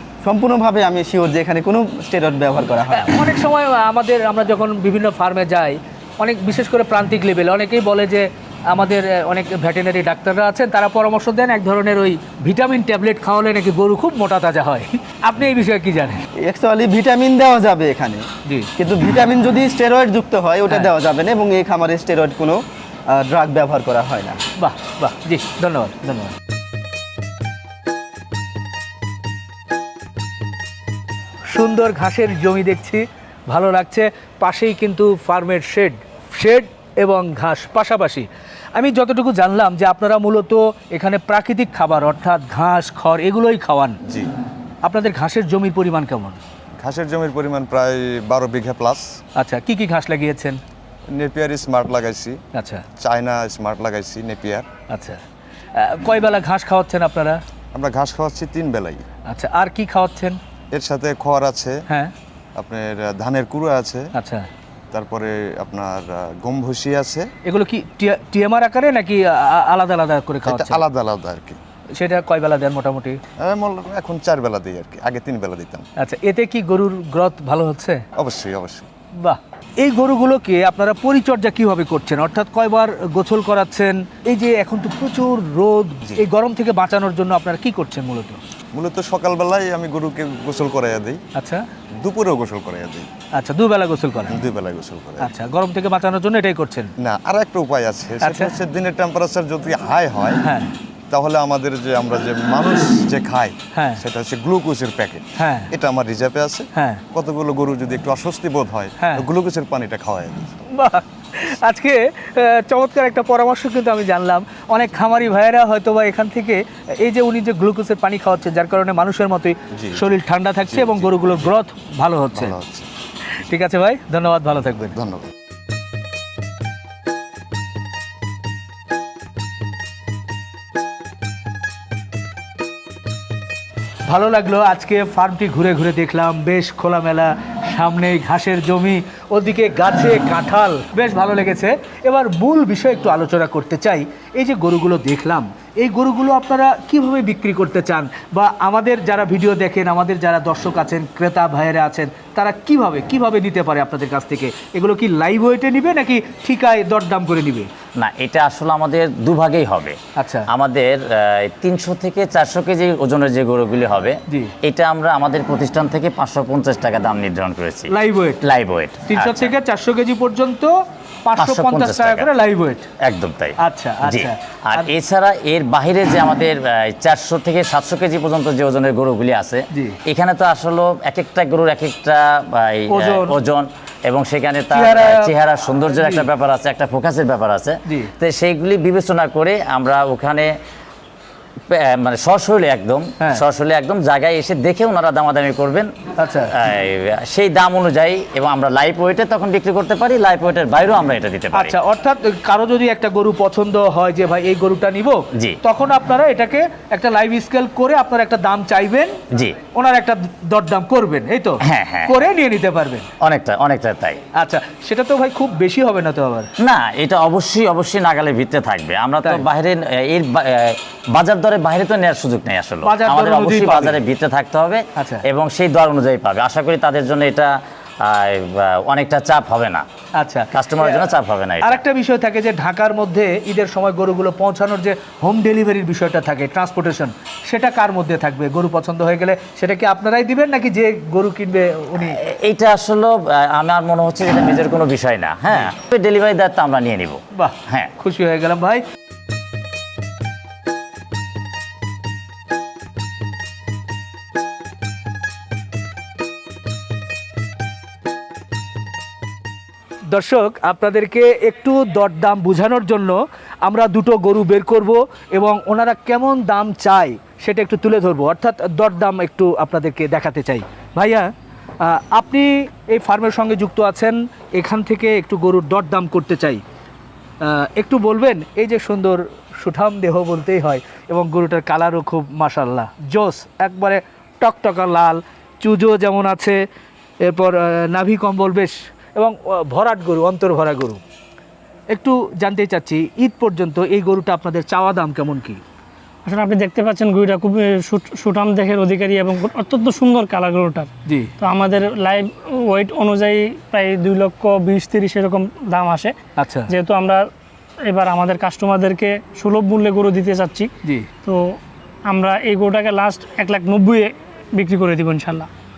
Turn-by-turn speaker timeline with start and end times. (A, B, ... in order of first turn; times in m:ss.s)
0:00.2-0:03.2 A
0:02.9-0:16.2 B
0:16.4-0:18.2 A
0:18.8-0:24.4 A
0:24.6-0:26.3 B
0:31.5-0:44.0 B
0:44.8-0:46.4 B
0:46.8-0:49.0 C
0:49.4-0:50.6 B
0:51.1-0:52.4 C
0:52.5-0:52.8 B
0:53.0-0:54.6 C
0:54.9-0:55.2 B
0:55.8-0:57.4 B
0:57.7-0:59.0 C
0:59.3-1:00.4 B
1:00.7-1:01.8 C
1:02.6-1:04.1 C
1:04.1-1:04.5 B
1:04.9-1:07.3 C
1:07.4-1:10.8 B
1:10.4-1:11.6 C
1:12.0-1:13.2 B
1:13.4-1:15.8 C
1:16.0-1:18.0 B
1:18.2-1:18.9 C
1:19.2-1:28.4 B
1:28.7-1:31.2 C
1:31.4-1:31.6 B
1:32.0-1:33.1 C
1:33.3-1:34.4 B
1:34.3-1:35.3 C
1:35.2-1:36.9 B
1:37.0-1:40.4 C
1:38.2-1:38.5 B
1:40.4-1:40.7 B
1:41.1-1:50.6 C
1:43.7-1:44.0 B
1:45.4-1:45.7 B
1:46.7-1:47.0 B
1:50.7-2:02.6 B
1:59.7-2:01.5 C
2:02.3-2:02.9 C
2:03.4-2:05.0 B
2:04.9-2:05.3 C
2:14.1-2:37.7 B
2:38.0-2:40.0 D
2:40.2-2:40.5 B
2:40.5-2:47.9 D
2:47.9-2:48.4 B
2:48.4-2:49.5 D
2:49.1-2:50.7 B
2:51.2-2:52.9 B
2:51.4-2:52.3 D
2:53.0-3:10.5 D
2:53.6-2:54.9 B
2:59.7-3:00.0 B
3:02.9-3:03.3 B
3:04.7-3:05.3 B
3:05.9-3:06.2 B
3:11.7-3:15.9 D
3:16.2-3:16.5 B
3:16.6-3:21.7 D
3:21.5-3:29.2 B
3:29.7-3:33.1 B
3:31.6-3:32.2 D
3:33.2-3:34.2 D
3:34.3-3:36.5 B
3:36.6-3:49.8 D
3:42.8-3:44.0 B
3:45.0-3:45.2 B
3:50.2-3:51.0 B
3:50.5-3:51.8 D
3:51.6-4:02.2 B
4:02.0-4:07.9 D
4:07.3-4:08.8 B
4:20.1-4:31.3 B
4:31.8-4:36.6 B
4:37.4-4:46.6 B
4:47.2-4:51.0 B
4:51.9-4:55.6 B
4:56.2-5:06.1 E
5:06.4-5:06.7 B
5:06.7-5:07.2 E
5:07.8-5:10.7 E
5:11.2-5:11.6 E
5:12.1-5:15.5 E